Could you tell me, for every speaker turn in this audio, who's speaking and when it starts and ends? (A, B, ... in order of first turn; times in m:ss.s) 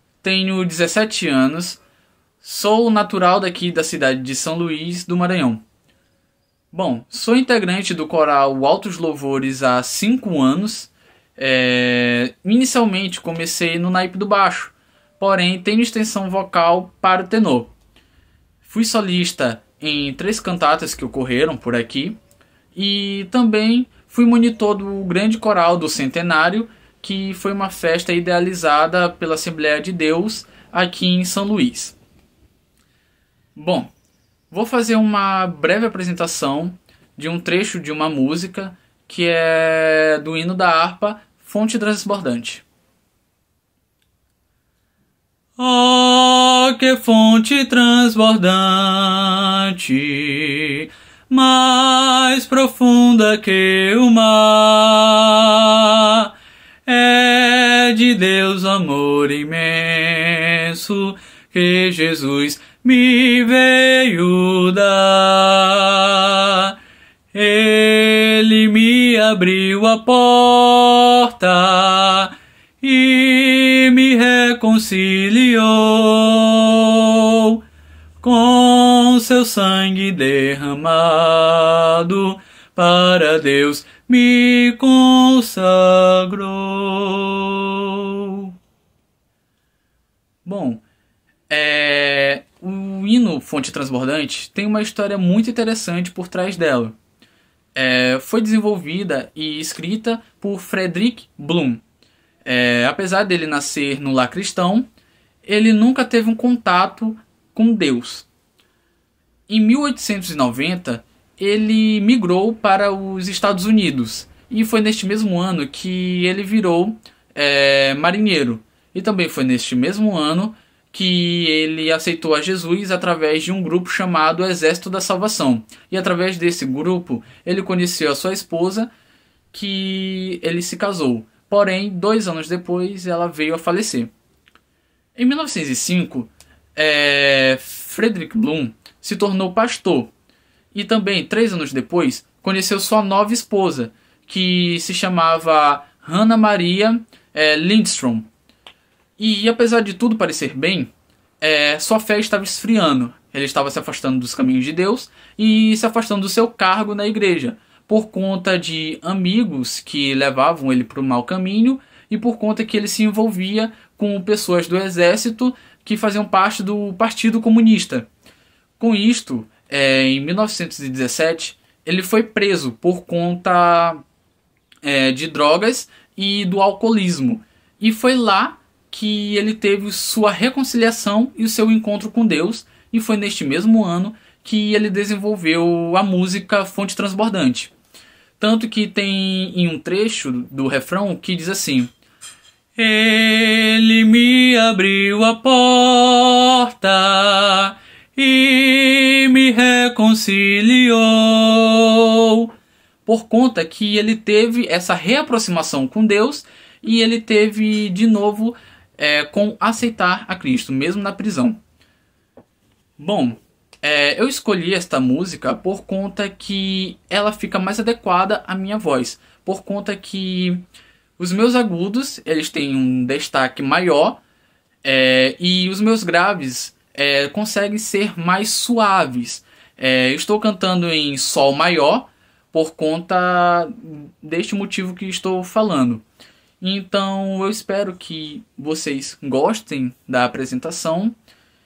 0:00.2-0:01.8 A
0:02.4-0:05.6 A
0:06.7-0:17.7 A
0:18.6-0:22.2 A
0:22.7-0:32.0 A
0:33.5-0:33.9 A
0:34.5-0:42.6 A
0:45.6-0:56.3 A
0:56.8-1:06.8 A
1:07.3-1:17.6 A
1:18.2-1:28.5 A
1:30.4-1:30.8 A
1:31.5-1:37.0 A
1:37.7-1:41.8 A
1:42.4-1:44.8 A
1:45.4-1:48.3 A
1:49.5-2:08.9 A
2:09.5-2:14.1 A
2:15.1-2:20.1 A
2:20.7-2:28.3 A
2:29.2-2:30.9 A
2:31.4-2:48.1 A
2:48.8-2:54.0 A
2:54.8-3:07.7 A
3:08.4-3:11.9 A
3:12.8-3:22.5 A
3:23.0-3:31.6 A
3:33.0-3:40.6 A
3:41.2-3:44.2 A
3:44.8-3:56.0 A
3:56.6-4:01.1 A